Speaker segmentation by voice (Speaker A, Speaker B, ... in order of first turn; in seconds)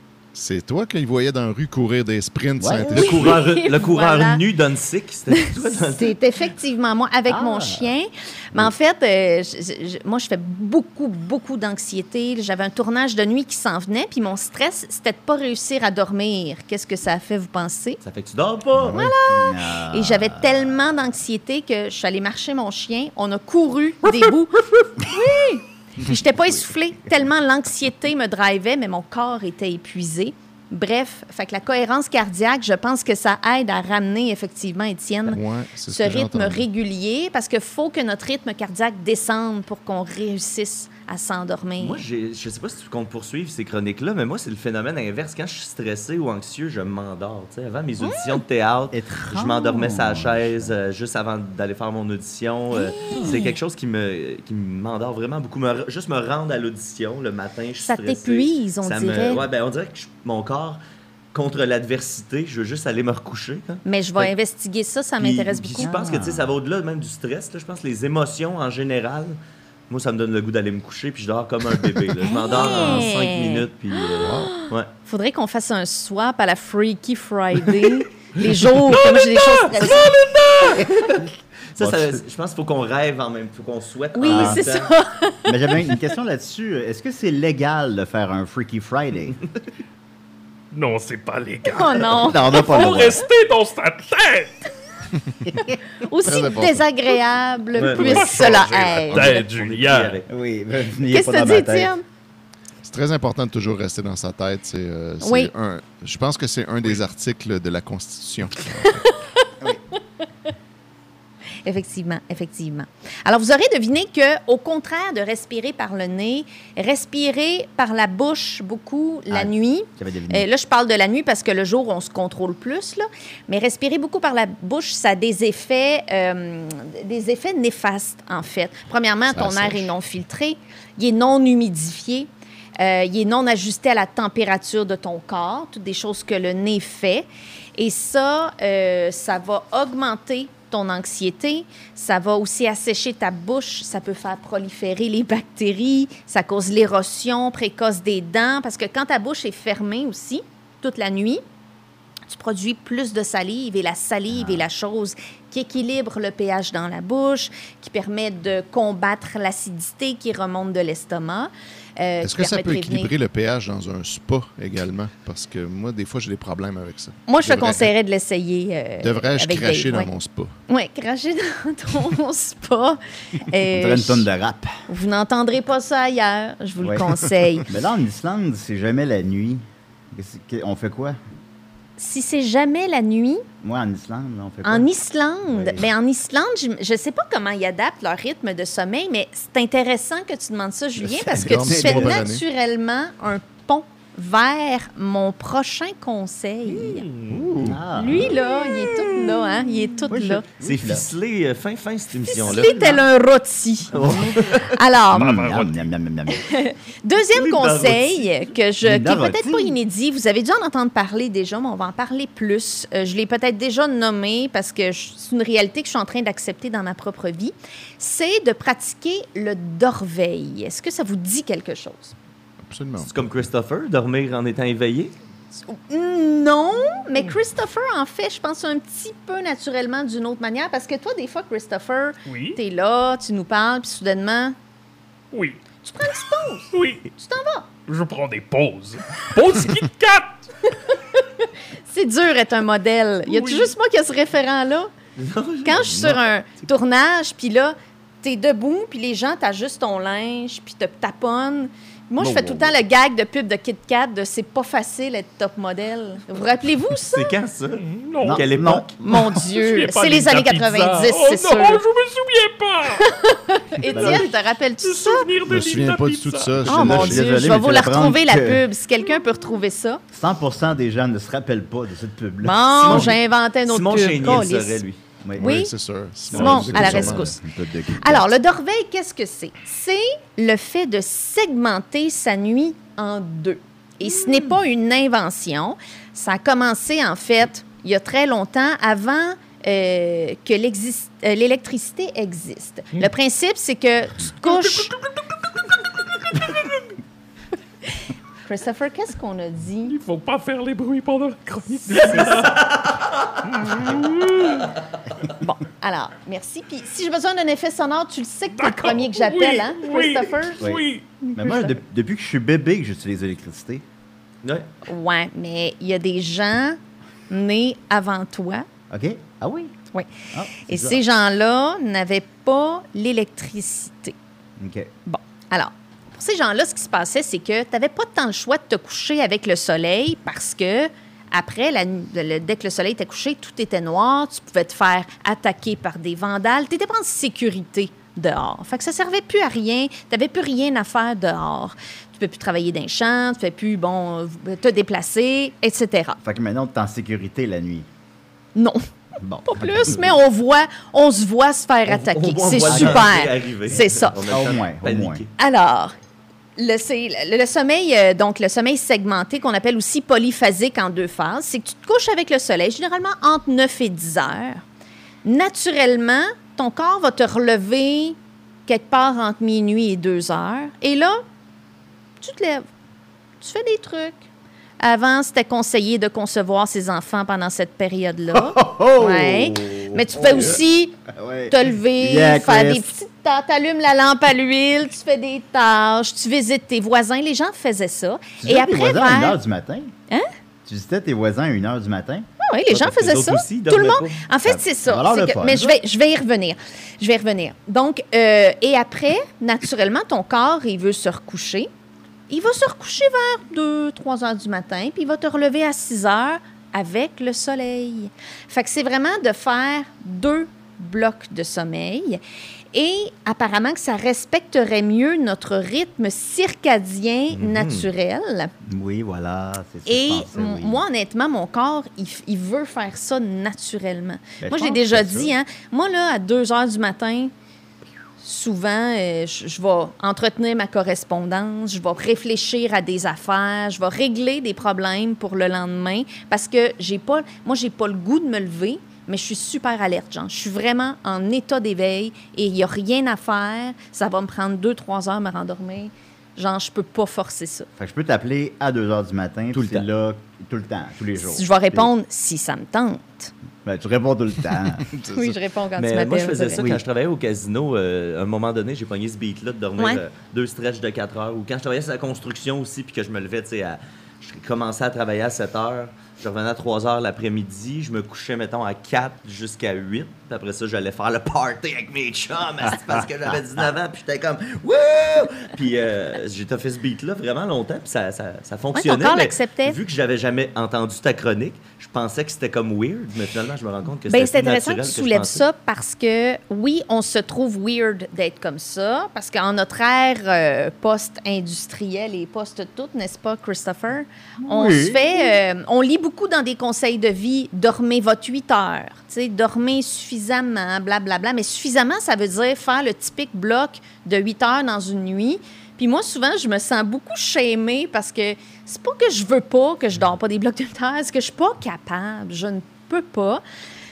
Speaker A: 0.3-3.2, 35.3-36.7, 74.2-74.5, 96.2-96.9, 102.8-109.0, 129.3-129.9, 162.2-167.9, 169.0-170.5, 191.3-192.4, 197.3-198.3, 222.6-223.1, 265.5-267.3, 275.4-277.3, 454.9-455.4
Speaker B: 2.6-3.3, 7.3-7.9, 18.8-21.1, 48.9-50.8, 65.8-66.5, 81.8-82.2, 84.2-84.6, 85.5-89.4, 92.2-93.2, 100.3-101.9, 119.3-120.5, 154.3-154.7, 173.7-174.8, 176.8-177.2, 177.7-181.2, 183.6-184.9, 185.5-185.9, 191.2-192.2, 197.6-198.4, 200.1-201.1, 205.1-206.5, 208.8-209.8, 252.2-252.7, 258.2-258.9, 263.9-264.3, 266.7-268.6, 270.1-273.1, 275.2-275.6, 276.3-278.3, 311.4-313.8, 318.9-319.7, 320.3-321.0, 324.6-324.9, 346.2-347.9, 349.2-350.1, 352.6-353.1, 354.2-355.2, 378.3-382.9, 388.4-389.9, 390.7-392.3, 394.4-395.8, 418.6-420.8, 424.4-425.3, 447.8-451.9, 453.6-454.9, 456.6-456.8, 494.4-495.4
Speaker C: 2.9-4.4, 5.5-18.0, 18.9-42.0, 48.0-48.4, 52.7-53.5, 57.8-59.4, 63.9-65.9, 72.2-80.1, 84.2-86.0, 91.7-93.0, 96.0-99.4, 101.1-102.0, 105.2-105.5, 108.9-109.5, 111.7-151.4, 152.3-163.1, 167.3-170.1, 170.7-174.3, 174.9-177.7, 182.0-183.4, 184.6-197.1, 197.9-200.4, 202.3-205.5, 206.3-222.2, 225.7-234.6, 235.8-237.7, 240.9-244.9, 245.6-257.3, 259.0-261.8, 263.0-265.3, 266.6-270.0, 272.4-274.8, 275.4-275.7, 276.3-277.4, 278.0-294.9, 298.5-300.0, 301.9-302.5, 305.4-310.7, 311.2-311.7, 314.9-316.8, 317.3-318.7, 320.6-324.1, 325.1-346.2, 348.6-348.8, 349.4-354.2, 355.4-355.9, 356.6-364.6, 365.2-368.2, 368.7-371.2, 372.2-372.6, 373.4-374.3, 374.8-381.0, 381.5-389.4, 392.4-401.7, 402.3-412.2, 412.7-418.5, 419.9-427.3, 428.2-447.7, 451.2-453.3, 455.1-456.7, 478.7-479.8, 484.1-513.4
Speaker D: 3.0-6.2, 18.0-19.0, 41.8-60.8, 61.3-64.3, 65.2-69.4, 69.9-74.9, 80.9-84.9, 97.8-100.3, 200.6-203.0, 203.9-204.7, 207.3-208.4, 223.0-225.1, 245.2-246.2, 257.1-259.0, 272.8-275.0, 302.2-303.4, 314.4-314.7, 351.9-355.3, 392.7-394.2, 417.3-417.9, 449.5-449.9, 455.8-485.4
Speaker E: 78.8-80.9, 90.7-94.7, 97.8-100.2, 196.7-197.6, 205.2-205.9, 232.2-232.6, 235.3-235.6, 236.7-237.1, 237.9-240.5, 243.3-243.7, 257.8-258.5, 259.1-263.1, 263.8-266.9, 294.4-295.2, 296.3-296.9, 299.9-302.7, 303.5-304.7, 308.5-311.1